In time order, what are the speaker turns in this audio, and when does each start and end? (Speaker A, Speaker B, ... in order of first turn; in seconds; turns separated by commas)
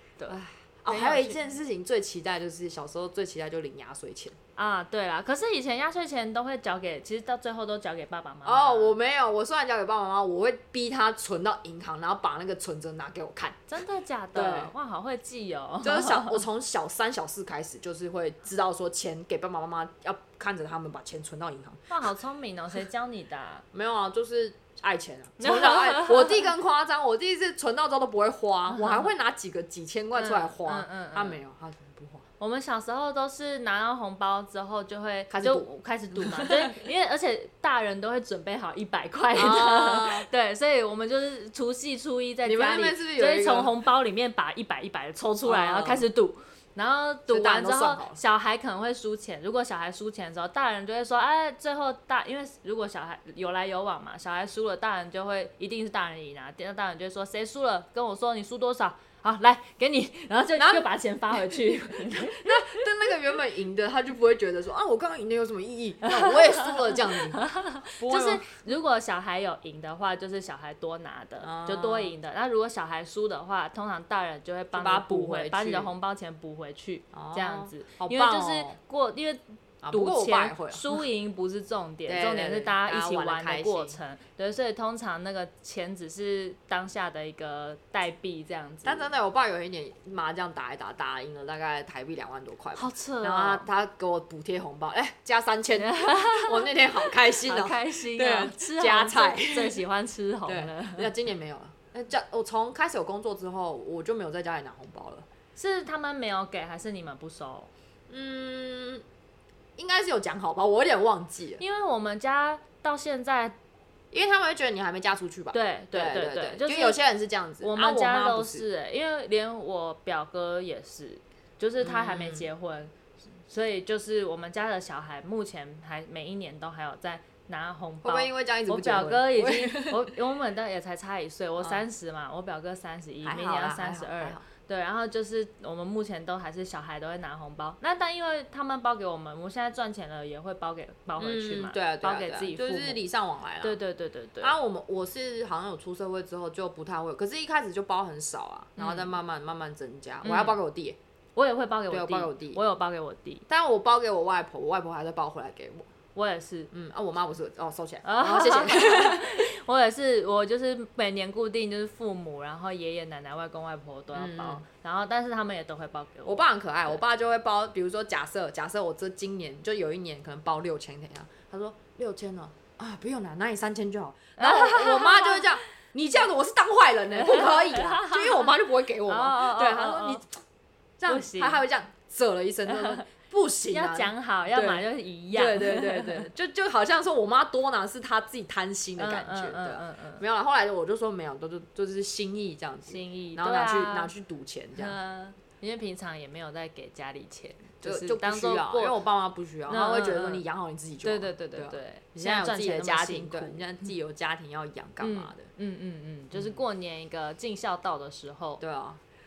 Speaker A: 0.3-4.4, Speaker B: 0.9-1.4, Speaker B: 4.6-9.0, Speaker A: 8.4-13.7, Speaker B: 13.7-16.4, Speaker A: 14.3-14.7, Speaker A: 15.8-21.9, Speaker B: 21.9-23.6, Speaker A: 23.7-32.3, Speaker B: 25.4-26.5, Speaker B: 28.7-29.1, Speaker B: 30.1-31.4, Speaker B: 32.4-63.1, Speaker A: 35.3-36.7, Speaker A: 39.4-40.3, Speaker A: 42.5-43.8, Speaker A: 45.5-46.0, Speaker A: 47.3-48.2, Speaker A: 60.6-68.5, Speaker B: 66.1-89.1, Speaker A: 71.4-72.1, Speaker A: 74.7-75.9, Speaker A: 77.1-78.8, Speaker A: 79.8-81.0, Speaker A: 82.1-84.0, Speaker A: 88.8-99.8, Speaker B: 92.8-93.7, Speaker B: 95.8-101.1, Speaker A: 100.5-105.2, Speaker B: 105.5-107.7, Speaker A: 108.1-109.0, Speaker A: 109.8-111.6, Speaker B: 111.6-113.6, Speaker A: 114.1-118.7, Speaker B: 115.5-117.0, Speaker B: 117.6-143.0, Speaker A: 121.8-122.5, Speaker A: 128.0-130.1, Speaker A: 133.2-134.4, Speaker A: 141.2-143.8, Speaker B: 143.6-144.6, Speaker A: 144.4-151.0, Speaker B: 148.8-149.1, Speaker B: 150.2-150.6, Speaker B: 151.3-153.4, Speaker A: 151.9-152.6, Speaker A: 153.5-155.9, Speaker B: 156.2-156.7, Speaker A: 156.7-159.4, Speaker B: 158.0-167.0, Speaker A: 164.1-164.6, Speaker A: 166.2-180.3, Speaker B: 174.4-175.5, Speaker B: 177.2-178.5, Speaker B: 179.1-180.2, Speaker A: 181.0-195.0, Speaker B: 181.1-181.6, Speaker B: 182.7-183.0, Speaker B: 183.7-186.3, Speaker B: 189.0-190.2, Speaker B: 192.9-194.1, Speaker B: 194.8-199.0, Speaker A: 197.8-205.5, Speaker B: 199.7-200.4, Speaker B: 201.0-203.9, Speaker B: 205.0-208.6, Speaker A: 206.3-206.6, Speaker A: 208.6-209.0